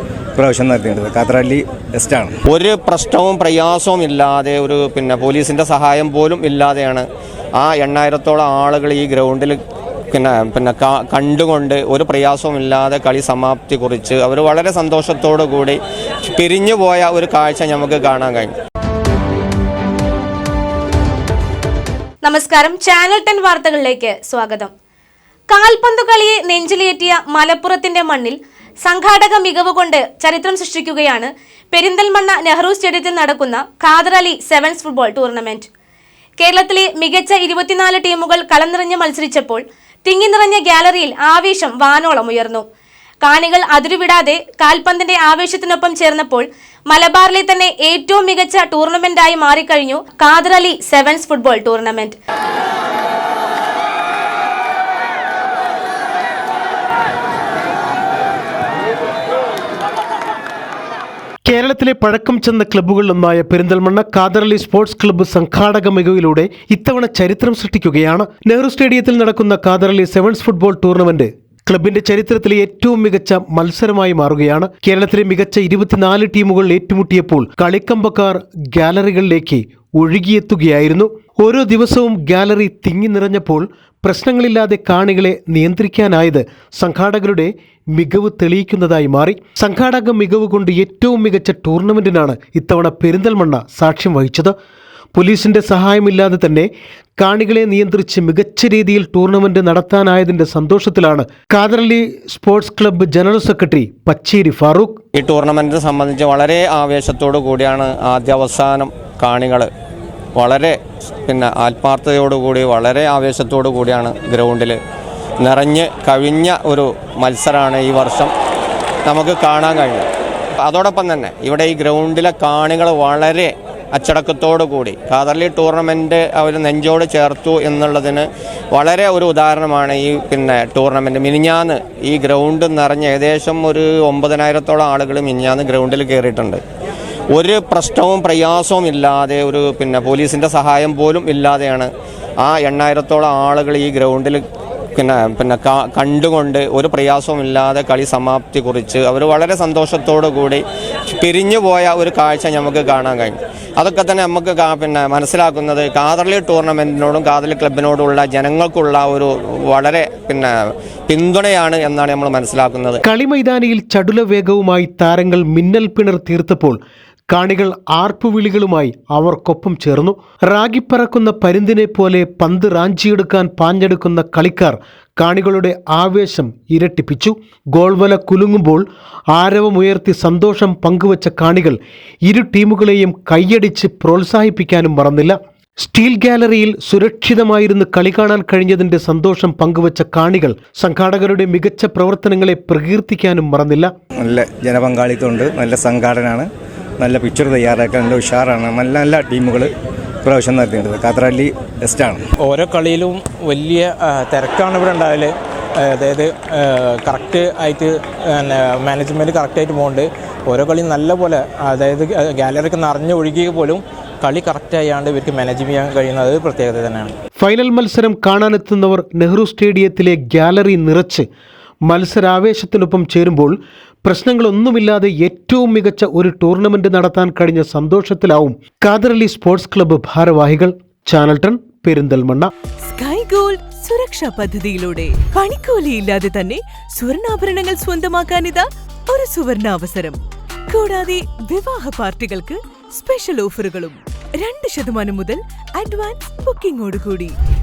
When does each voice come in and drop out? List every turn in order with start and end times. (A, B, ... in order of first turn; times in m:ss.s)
0:00.4-0:02.4 A
0:02.5-0:07.1 B
0:07.6-0:09.6 B
0:10.1-0:15.8 B
0:16.3-0:18.5 B
0:22.2-0:24.7 C
0:25.5-0:35.7 C
0:36.4-0:42.7 C
0:43.2-0:52.2 C
1:01.5-1:34.5 D
1:35.2-1:45.0 D
1:45.2-1:49.7 B
1:50.4-1:50.8 B
1:51.3-1:54.8 B
1:55.4-1:58.3 B
1:59.1-2:00.1 B
2:00.7-2:16.6 B
2:17.3-2:21.9 B
2:22.4-2:24.4 B
2:25.0-2:30.6 B
2:31.2-2:40.5 B
2:41.1-2:43.0 B
2:43.0-2:46.8 D
2:47.3-3:13.9 D
3:14.2-3:16.5 A
3:17.0-3:19.7 A
3:20.2-3:22.2 A
3:22.4-3:37.1 E
3:37.4-3:41.3 D
3:41.9-3:52.5 D
3:52.9-4:07.4 F